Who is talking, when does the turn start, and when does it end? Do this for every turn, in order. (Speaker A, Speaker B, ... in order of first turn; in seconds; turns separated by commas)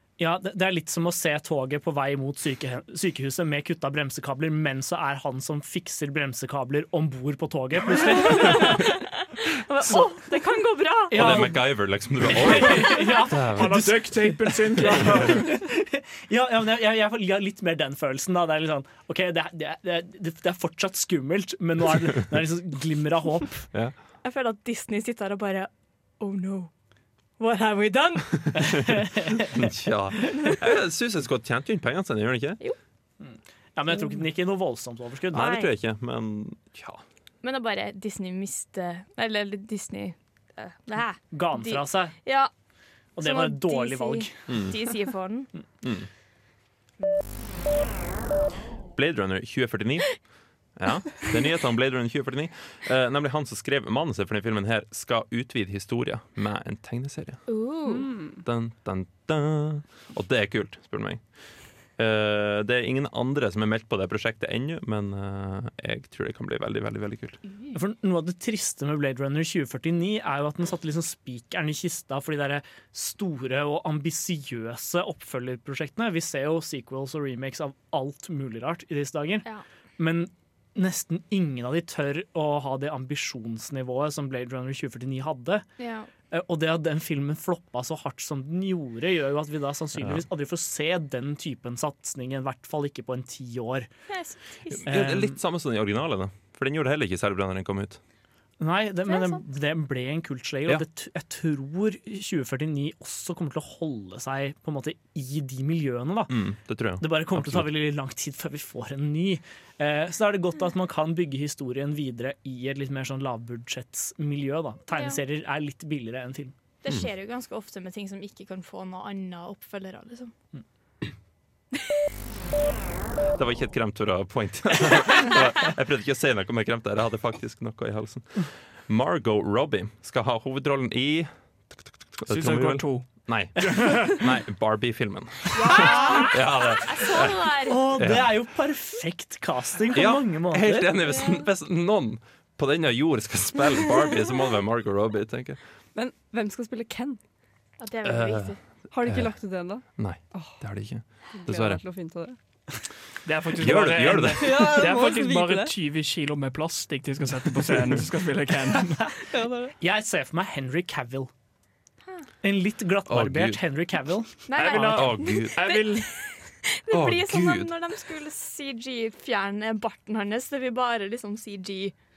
Speaker A: 0.2-8.9, Speaker B: 8.2-11.5, Speaker A: 9.9-10.1, Speaker A: 11.1-23.7, Speaker C: 11.1-14.2, Speaker D: 12.3-15.5, Speaker B: 24.2-26.7, Speaker B: 27.4-28.9, Speaker A: 28.6-29.1, Speaker C: 29.6-32.6, Speaker A: 33.2-35.5, Speaker B: 35.3-35.7, Speaker C: 35.3-37.0, Speaker B: 37.4-42.5, Speaker A: 41.3-42.2, Speaker B: 43.1-45.5, Speaker A: 43.2-44.5, Speaker C: 44.5-44.8, Speaker C: 45.8-46.1, Speaker C: 49.0-57.5, Speaker B: 57.5-58.1, Speaker E: 57.9-58.4, Speaker C: 58.4-67.4, Speaker A: 67.7-79.5, Speaker A: 80.0-85.7, Speaker B: 85.8-86.1, Speaker A: 86.3-93.9, Speaker B: 94.1-94.9, Speaker C: 94.8-98.0, Speaker A: 94.8-95.4, Speaker A: 98.6-116.5, Speaker B: 99.1-99.4, Speaker C: 106.3-107.7, Speaker B: 114.9-115.2, Speaker B: 116.8-120.3, Speaker C: 123.4-137.4, Speaker D: 132.2-134.1, Speaker B: 135.5-138.0, Speaker A: 136.0-136.3, Speaker A: 137.7-140.9, Speaker C: 138.0-138.3, Speaker C: 139.9-145.8, Speaker B: 141.1-141.4, Speaker E: 145.9-147.2, Speaker B: 147.8-148.7, Speaker C: 148.0-151.8, Speaker E: 148.9-150.8, Speaker E: 151.3-152.4, Speaker D: 153.2-159.1, Speaker C: 153.6-154.9, Speaker E: 154.3-155.7, Speaker E: 159.3-159.7, Speaker A: 159.8-161.3, Speaker A: 162.4-164.3, Speaker C: 163.1-163.6, Speaker B: 164.5-171.9, Speaker D: 164.6-166.1, Speaker C: 164.6-165.6, Speaker C: 166.9-167.7